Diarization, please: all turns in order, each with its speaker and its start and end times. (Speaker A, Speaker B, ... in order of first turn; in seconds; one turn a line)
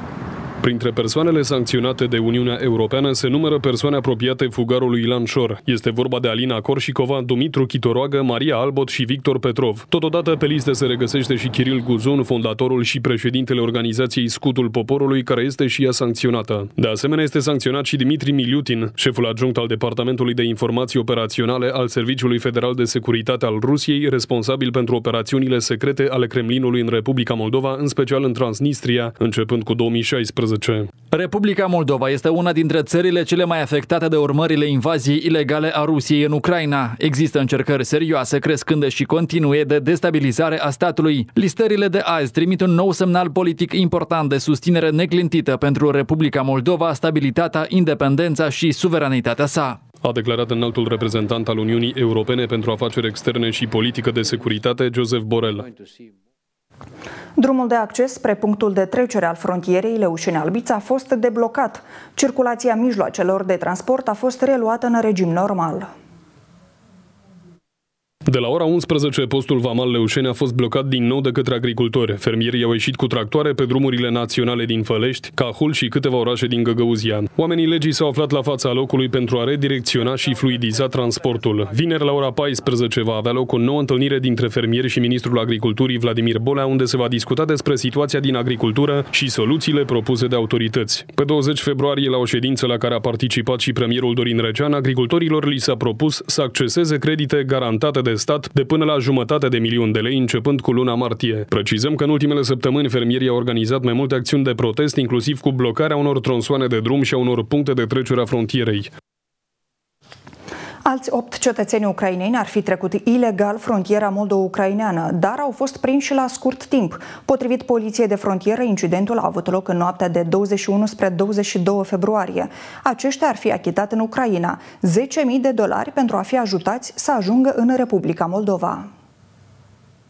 Speaker A: 0.6-30.9
Speaker B: 31.1-49.8
Speaker A: 50.0-55.7
Speaker C: 57.4-65.9
Speaker A: 68.2-108.9
Speaker C: 110.8-128.9